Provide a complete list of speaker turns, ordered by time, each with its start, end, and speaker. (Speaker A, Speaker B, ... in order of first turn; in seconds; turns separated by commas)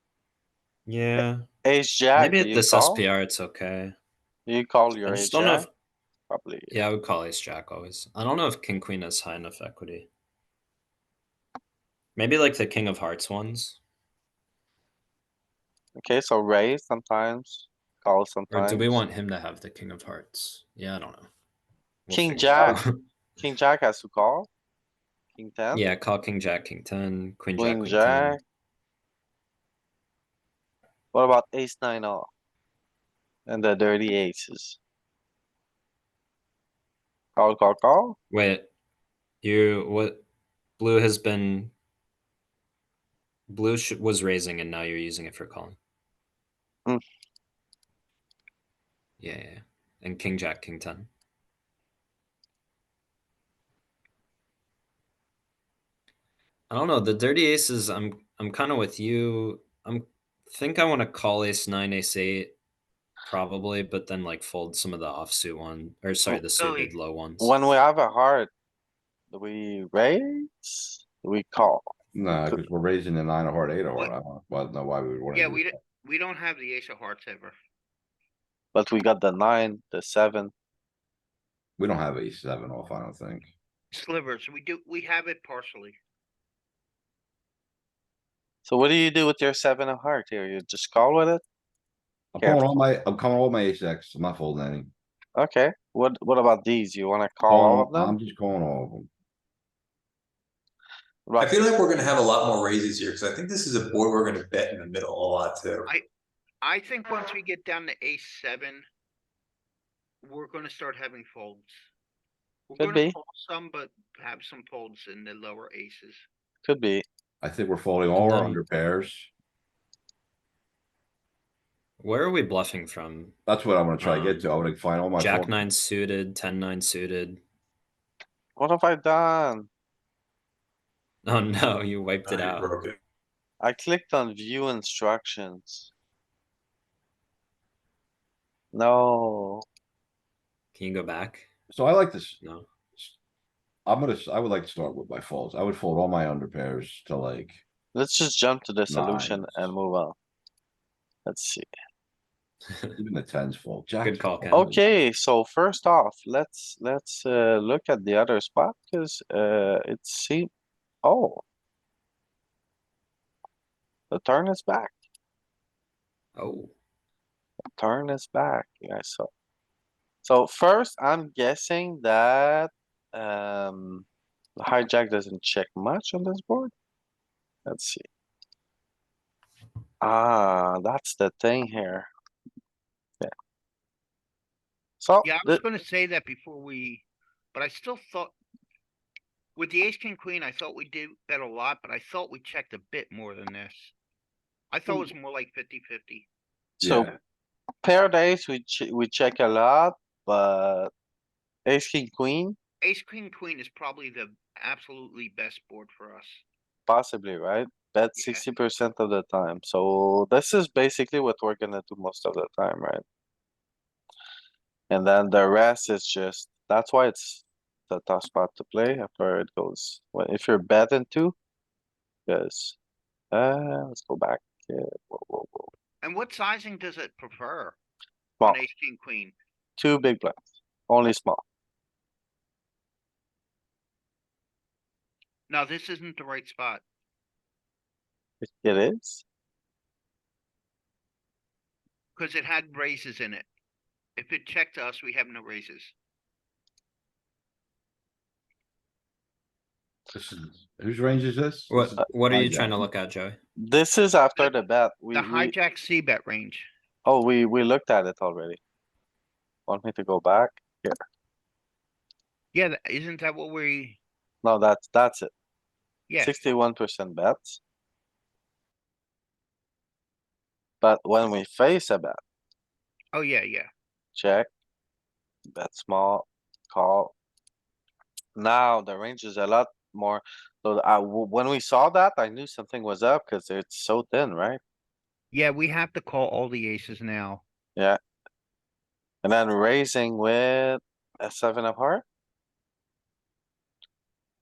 Speaker A: 0.8-1.4, Speaker B: 1.6-3.0, Speaker A: 2.2-3.9, Speaker B: 4.5-5.7, Speaker A: 5.0-5.7, Speaker B: 6.3-6.8, Speaker A: 6.7-10.1, Speaker A: 12.2-13.8, Speaker B: 15.9-19.0, Speaker A: 18.5-21.3, Speaker A: 22.1-23.0, Speaker B: 22.1-22.8, Speaker B: 23.4-24.5, Speaker B: 25.4-25.9, Speaker A: 25.7-28.4, Speaker B: 27.6-28.4, Speaker B: 31.1-32.3, Speaker B: 33.5-34.8, Speaker B: 37.4-38.2, Speaker A: 38.3-38.7, Speaker A: 39.4-40.2, Speaker A: 40.8-41.7, Speaker A: 43.5-45.8, Speaker A: 49.2-51.1, Speaker A: 56.7-62.6, Speaker A: 63.2-67.5, Speaker C: 66.6-66.9, Speaker B: 67.4-68.5, Speaker B: 69.3-71.9, Speaker D: 72.1-75.8, Speaker C: 75.3-77.5, Speaker B: 78.7-80.5, Speaker D: 81.8-83.5, Speaker C: 83.9-86.0, Speaker B: 88.6-91.4, Speaker D: 92.3-94.9, Speaker B: 92.4-92.7, Speaker B: 95.3-98.2, Speaker D: 97.5-99.1, Speaker B: 101.3-101.8, Speaker E: 101.4-105.9, Speaker C: 106.6-108.9, Speaker C: 110.2-111.8, Speaker C: 112.7-116.2, Speaker B: 112.8-113.1, Speaker B: 116.6-117.0, Speaker D: 117.4-119.3, Speaker A: 118.2-118.6, Speaker A: 122.0-123.3, Speaker D: 123.5-125.6, Speaker A: 124.0-124.5, Speaker A: 125.2-127.4, Speaker B: 128.6-129.7, Speaker A: 131.2-132.7, Speaker E: 132.2-133.0, Speaker B: 133.6-135.9, Speaker B: 138.7-139.6, Speaker A: 140.7-141.5, Speaker D: 141.7-142.4, Speaker A: 142.4-142.7, Speaker D: 143.8-147.6, Speaker B: 147.9-150.1, Speaker D: 148.9-149.7, Speaker B: 151.2-151.7, Speaker D: 153.0-154.8, Speaker A: 154.0-154.6, Speaker B: 154.5-160.5, Speaker B: 161.0-161.4, Speaker B: 164.1-164.9, Speaker A: 166.3-166.7, Speaker B: 167.8-169.3, Speaker B: 170.2-174.0, Speaker B: 174.6-176.7, Speaker B: 177.7-178.0, Speaker B: 180.0-182.1, Speaker B: 185.0-185.6, Speaker C: 185.2-188.3, Speaker C: 189.6-193.9, Speaker C: 194.7-196.2, Speaker B: 196.8-197.1, Speaker D: 196.8-197.1, Speaker B: 197.8-200.9, Speaker B: 201.7-202.6, Speaker C: 202.8-206.4, Speaker B: 206.9-213.0, Speaker C: 208.2-208.4, Speaker B: 214.9-221.3, Speaker B: 222.3-222.8, Speaker B: 223.3-225.7, Speaker C: 226.0-227.8, Speaker C: 228.4-229.3, Speaker B: 229.8-231.4, Speaker C: 235.5-236.8, Speaker B: 238.4-239.2, Speaker C: 242.2-243.4, Speaker C: 244.2-245.9, Speaker D: 250.1-252.8, Speaker A: 251.7-253.4, Speaker B: 253.6-255.5, Speaker C: 255.1-256.7, Speaker B: 257.1-258.6, Speaker B: 259.7-260.9, Speaker C: 262.5-264.0, Speaker B: 264.4-265.3, Speaker C: 266.1-266.4, Speaker B: 266.2-267.6, Speaker B: 270.8-272.2, Speaker C: 273.1-273.7, Speaker B: 274.1-274.5, Speaker B: 275.6-277.1, Speaker B: 278.4-284.6, Speaker C: 285.3-287.4, Speaker B: 289.2-292.0